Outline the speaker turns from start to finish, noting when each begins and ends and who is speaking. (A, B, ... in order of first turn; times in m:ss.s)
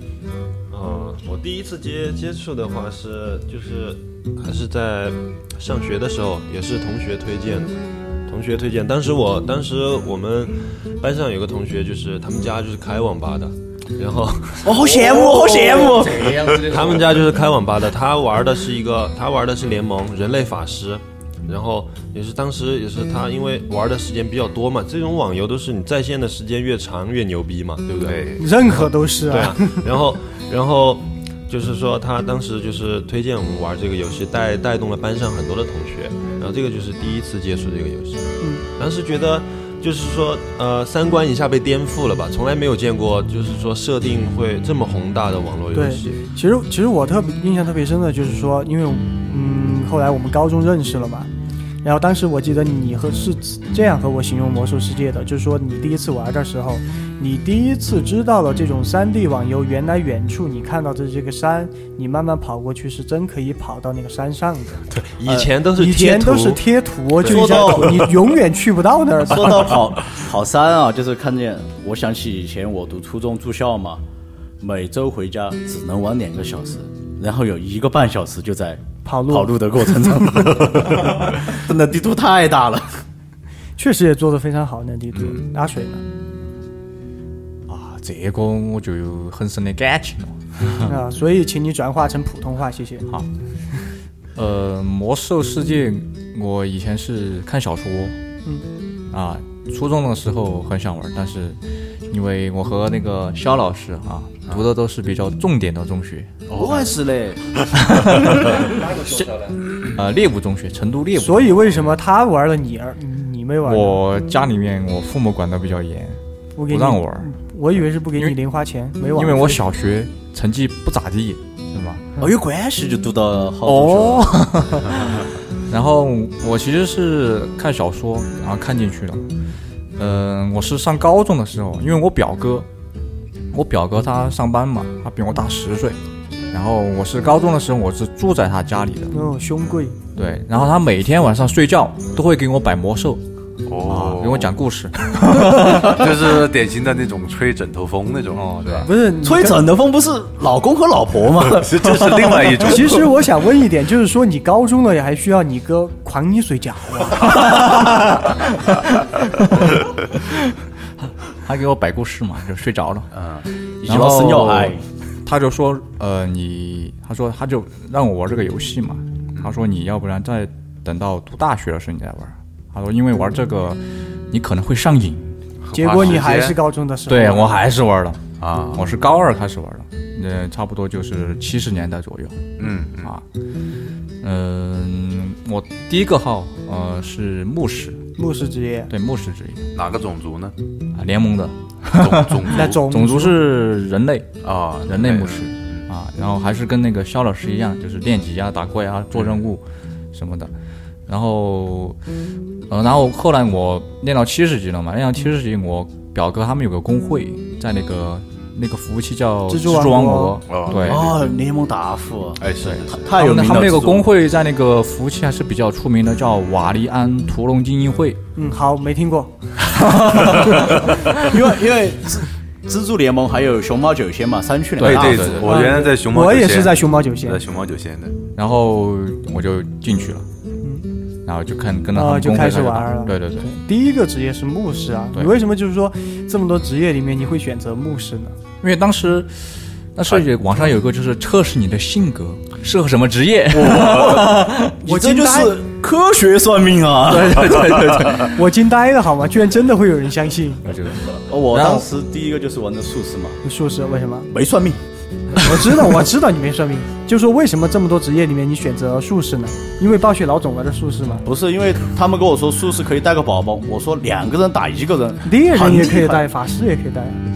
0:00.7-0:15.0 A
0:14.6-0:16.4 B
0:15.0-0:17.1 C
0:16.6-0:46.2 A
0:28.0-0:28.4 D
0:28.4-0:29.8 E
0:45.7-0:51.3 E
0:51.8-1:04.9 E
1:04.9-1:06.6 A
1:05.8-1:09.8 E
1:07.2-1:08.1 B
1:07.2-1:08.2 A
1:09.2-1:14.0 B
1:14.6-1:23.0 B
1:19.0-1:19.6 E
1:20.1-1:20.6 E
1:23.8-1:26.0 E
1:27.7-1:30.9 C
1:30.8-1:33.1 E
1:34.3-1:38.1 C
1:39.1-1:46.4 C
1:46.5-1:46.9 D
1:46.5-1:48.7 B
1:47.9-1:48.4 C
1:48.6-1:49.6 A
1:49.8-1:51.7 C
1:51.2-1:54.0 E
1:53.6-1:57.3 C
1:56.6-1:59.6 E
1:59.1-2:02.1 C
2:02.2-2:04.4 B
2:03.6-2:05.0 C
2:05.7-2:09.2 C
2:10.0-2:12.7 C
2:13.5-2:16.0 C
2:16.5-2:19.1 C
2:19.1-2:20.0 E
2:20.1-2:23.2 C
2:23.6-2:24.5 D
2:23.8-2:26.0 C
2:25.5-2:28.9 D
2:28.3-2:28.9 C
2:28.8-2:29.6 E
2:29.2-2:32.8 B
2:31.4-2:33.0 D
2:32.6-2:38.3 E
2:39.4-2:40.5 C
2:41.4-2:43.1 C
2:43.1-2:43.4 D
2:43.8-2:44.8 B
2:43.8-2:55.3 C
2:55.6-2:56.6 D
2:55.7-2:57.6 E
2:57.1-3:02.5 C
2:58.4-2:58.8 D
3:02.6-3:03.1 D
3:04.2-3:08.0 C
3:08.2-3:08.9 E
3:08.9-3:09.6 C
3:09.7-3:10.5 D
3:10.9-3:20.5 C
3:11.9-3:12.9 D
3:12.5-3:13.4 E
3:14.4-3:15.8 D
3:19.2-3:19.4 D
3:21.1-3:22.0 C
3:22.7-3:31.1 C
3:29.5-3:30.4 E
3:30.5-3:31.1 D
3:30.8-3:34.1 B
3:32.4-3:33.0 D
3:32.6-3:38.2 C
3:38.4-3:39.3 E
3:39.8-3:40.6 C
3:40.1-3:40.6 E
3:41.1-3:45.6 B
3:44.8-3:45.5 C
3:44.8-3:48.2 D
3:45.4-3:47.4 E
3:48.3-3:50.3 C
3:51.2-3:53.5 C
3:51.9-3:58.4 E
3:58.6-4:04.8 C
4:03.5-4:08.3 B
4:04.8-4:05.6 E
4:07.0-4:08.3 C
4:08.2-4:10.6 E
4:10.6-4:11.9 C
4:11.3-4:13.4 B
4:13.4-4:14.3 E
4:14.3-4:14.8 B
4:15.4-4:21.2 E
4:21.2-4:26.2 B
4:25.2-4:27.2 E